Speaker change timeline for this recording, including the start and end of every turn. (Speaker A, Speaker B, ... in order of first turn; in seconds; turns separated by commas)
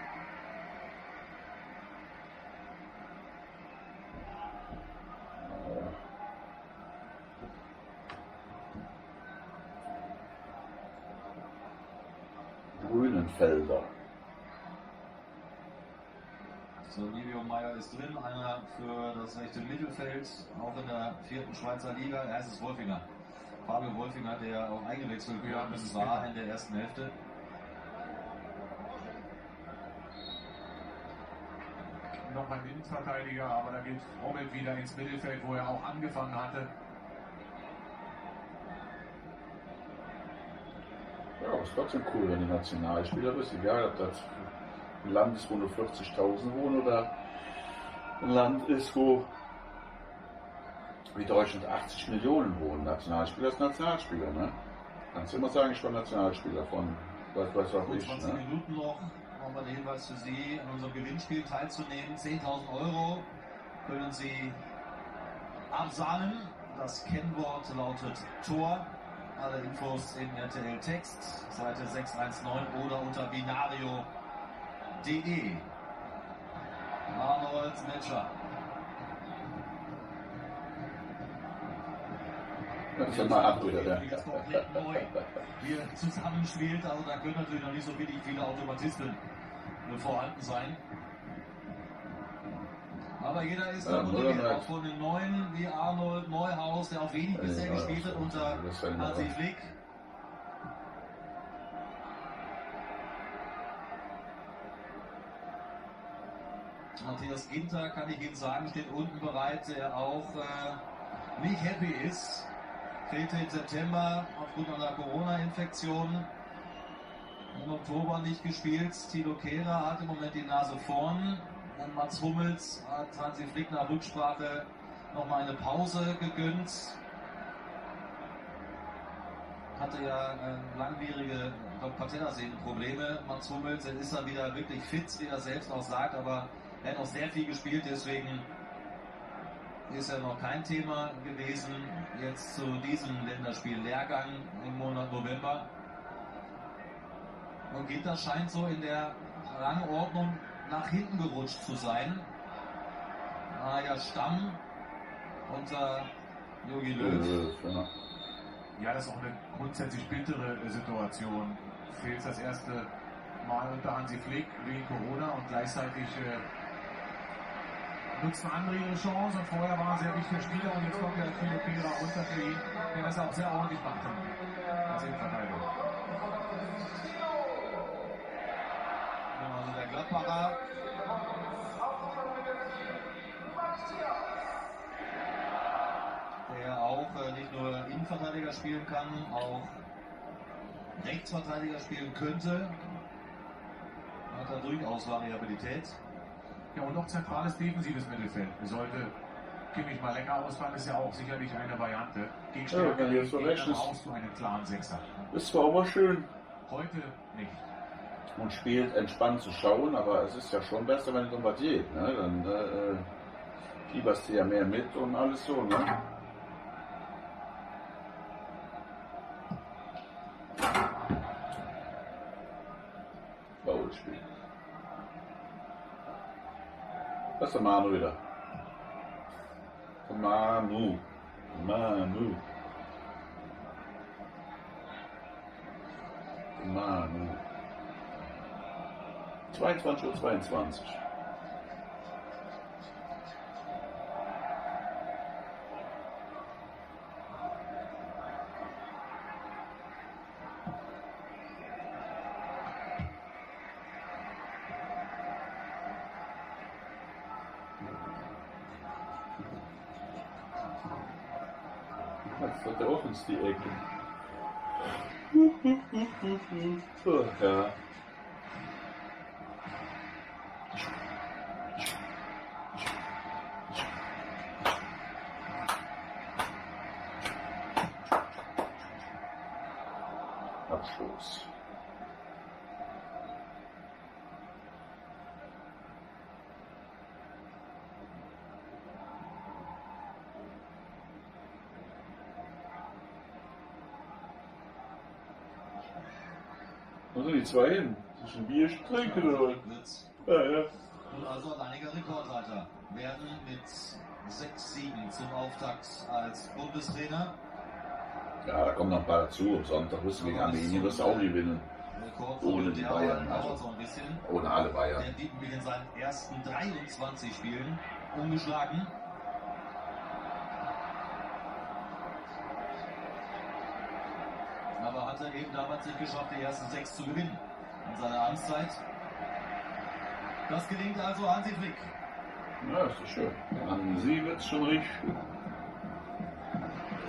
Speaker A: 5.4-6.0, Speaker A: 12.7-13.9, Speaker B: 16.9-23.0, Speaker B: 23.6-27.1, Speaker C: 25.4-26.3, Speaker C: 32.2-36.7, Speaker A: 41.4-44.5, Speaker A: 45.0-47.1, Speaker A: 48.2-49.3, Speaker A: 51.1-54.5, Speaker A: 55.1-58.4, Speaker B: 57.8-63.3, Speaker B: 63.8-64.6, Speaker B: 65.7-74.1, Speaker B: 75.0-75.7, Speaker B: 77.1-78.3, Speaker A: 83.0-85.0, Speaker B: 83.0-89.2, Speaker B: 89.8-90.8, Speaker B: 93.2-99.7, Speaker A: 93.8-94.7, Speaker A: 97.3-99.3, Speaker B: 107.0-110.8, Speaker B: 111.4-112.5, Speaker B: 113.0-116.3, Speaker B: 117.5-127.0, Speaker B: 129.8-138.4, Speaker B: 139.9-145.7, Speaker B: 147.7-152.3, Speaker B: 153.5-154.6, Speaker B: 155.5-156.1, Speaker B: 156.6-157.4, Speaker A: 157.0-157.9, Speaker C: 158.8-162.9, Speaker C: 163.4-166.4, Speaker C: 168.1-175.7, Speaker B: 179.3-180.6, Speaker B: 186.5-189.8, Speaker B: 191.0-192.8, Speaker B: 194.3-195.9, Speaker C: 196.7-199.1, Speaker C: 199.7-205.2, Speaker A: 202.7-203.9, Speaker A: 205.3-206.3, Speaker C: 206.7-207.6, Speaker A: 208.4-213.1, Speaker A: 213.9-216.0, Speaker A: 223.6-224.2, Speaker A: 227.4-228.2, Speaker A: 230.0-232.4, Speaker A: 236.6-237.4, Speaker A: 239.5-241.0, Speaker A: 262.3-263.8, Speaker A: 265.3-267.8, Speaker A: 280.7-281.5, Speaker A: 297.1-299.6, Speaker B: 298.9-300.1, Speaker A: 300.2-300.7, Speaker B: 301.1-307.3, Speaker A: 308.4-311.7, Speaker B: 310.1-311.3, Speaker B: 311.9-314.2, Speaker A: 312.4-313.6, Speaker A: 314.2-315.1, Speaker B: 314.9-318.9, Speaker B: 324.8-328.8, Speaker B: 330.5-331.9, Speaker A: 332.6-335.2